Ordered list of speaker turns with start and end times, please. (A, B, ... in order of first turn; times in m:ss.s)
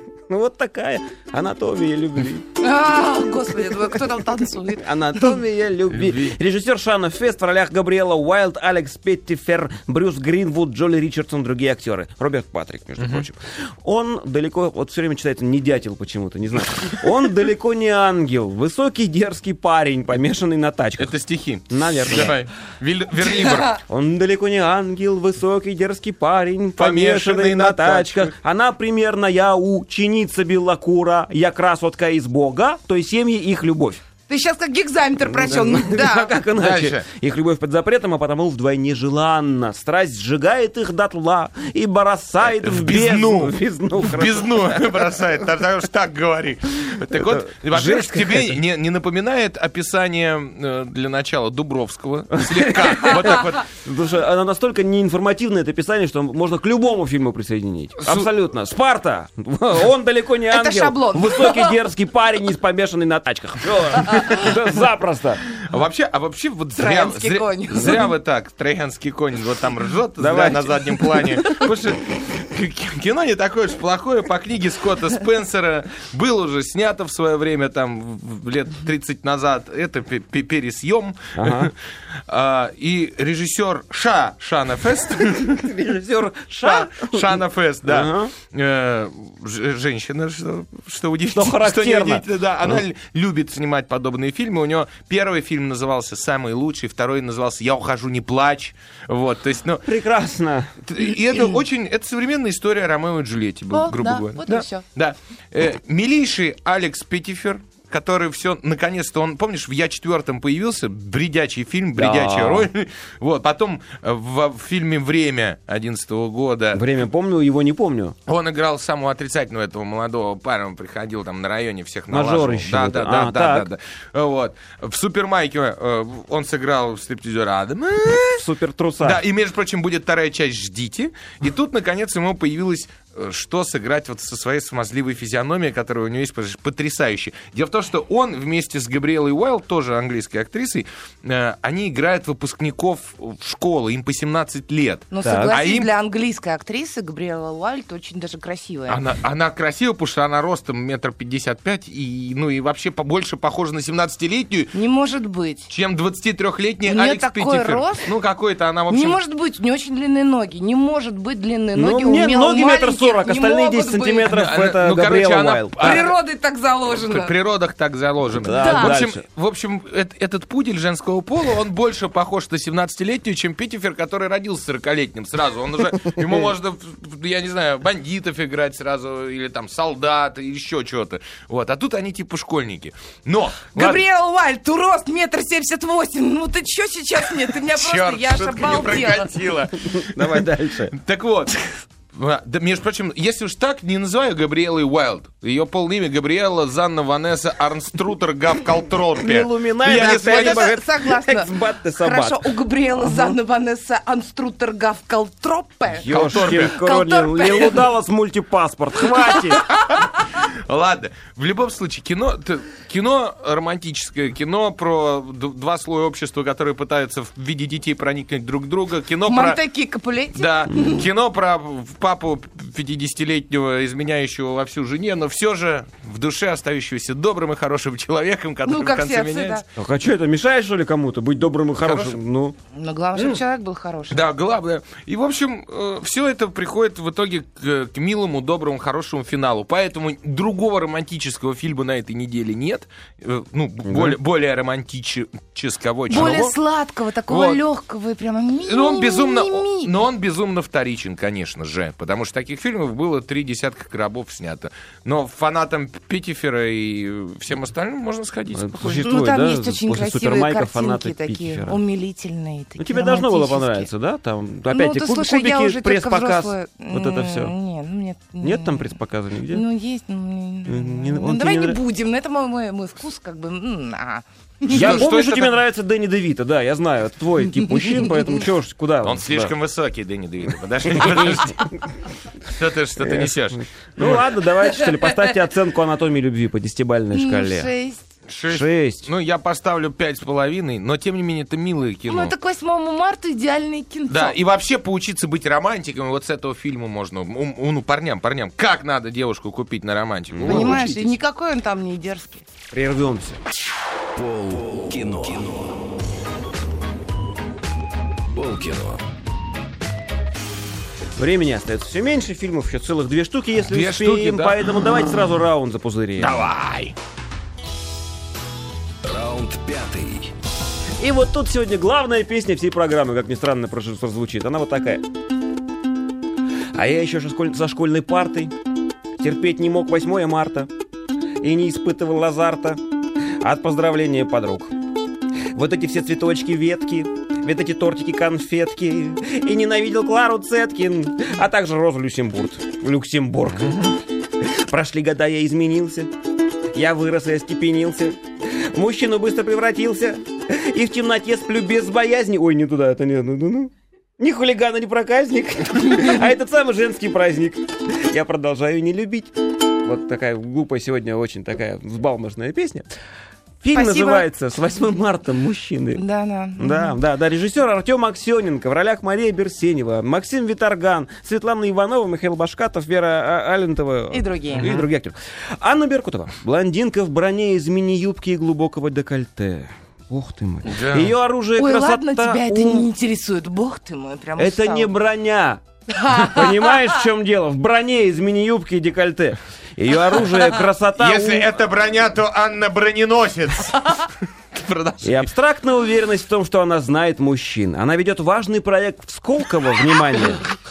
0:00.3-0:02.6 A
0:02.6-0:04.8 B
0:04.7-0:21.1 A
0:05.9-0:06.3 C
0:13.0-0:13.2 C
0:21.0-0:23.8 C
0:21.7-0:22.4 A
0:23.7-0:34.0 A
0:26.8-0:28.3 C
0:34.3-0:36.3 B
0:35.2-0:45.0 A
0:36.6-0:37.0 C
0:42.6-0:53.6 C
0:47.2-0:48.6 A
0:52.3-1:05.4 A
0:58.0-0:58.3 C
1:00.5-1:01.8 B
1:05.5-1:25.7 C
1:06.8-1:08.1 B
1:10.2-1:11.7 A
1:21.4-1:21.7 A
1:25.2-1:27.3 A
1:26.6-1:39.9 C
1:27.8-1:28.3 A
1:31.3-1:32.2 A
1:39.8-1:40.7 A
1:40.8-1:56.8 C
1:43.7-1:44.8 B
1:52.0-1:52.7 A
1:56.7-1:58.1 A
1:58.3-2:08.4 C
2:02.1-2:03.7 A
2:08.3-2:09.2 A
2:09.0-2:25.9 C
2:25.1-2:29.0 B
2:25.2-2:25.5 A
2:28.9-2:34.7 C
2:34.7-2:35.7 B
2:35.7-2:39.2 C
2:36.8-2:38.1 B
2:38.9-2:44.3 B
2:41.7-2:46.0 A
2:44.3-2:46.2 C
2:45.8-2:47.3 B
2:46.9-3:04.0 C
2:48.3-2:49.2 A
2:48.6-2:48.9 B
3:03.7-3:09.3 B
3:07.6-3:20.7 C
3:09.8-3:10.9 A
3:19.2-3:23.4 A
3:19.9-3:27.8 B
3:25.9-3:29.6 A
3:26.1-3:26.7 C
3:29.7-3:39.6 C
3:39.3-3:41.0 B
3:40.3-3:49.6 C
3:48.6-3:49.6 B
3:49.8-3:52.6 A
3:51.8-3:52.1 C
3:52.7-3:54.2 B
3:54.1-4:06.6 C
4:03.9-4:04.2 A
4:06.1-4:09.9 B
4:07.3-4:07.6 C
4:08.6-4:19.0 C
4:18.5-4:21.8 A
4:19.0-4:23.9 B
4:22.8-4:27.5 A
4:24.7-4:29.0 B
4:28.4-4:29.6 A
4:29.5-4:35.0 B
4:30.6-4:31.8 A
4:34.7-4:35.6 C
4:34.7-4:39.5 A
4:37.5-4:38.4 B
4:39.0-4:41.8 C
4:40.9-4:41.6 A
4:42.4-4:44.2 C
4:43.0-4:47.7 A
4:47.1-4:48.1 B
4:48.3-4:52.3 C
4:48.5-4:49.0 A
4:52.1-4:54.4 B
4:54.1-5:00.9 C
5:00.3-5:01.1 A
5:00.4-5:02.4 B
5:02.7-5:03.4 A
5:04.2-5:05.7 D
5:08.3-5:09.0 D
5:11.2-5:16.5 A
5:13.7-5:14.6 C
5:16.2-5:16.9 C
5:19.0-5:20.3 D
5:21.0-5:25.0 A
5:26.7-5:28.5 A
5:29.2-5:30.7 A
5:31.4-5:34.7 A
5:35.5-5:46.1 A
5:46.7-6:02.9 A
6:03.6-6:06.0 A
6:03.7-6:04.2 B
6:06.0-6:07.0 B
6:06.6-6:22.9 A
6:14.1-6:14.8 B
6:20.6-6:21.1 C
6:21.6-6:24.9 B
6:24.4-6:31.5 A
6:25.9-6:27.0 B
6:31.0-6:35.3 C
6:35.0-6:40.5 A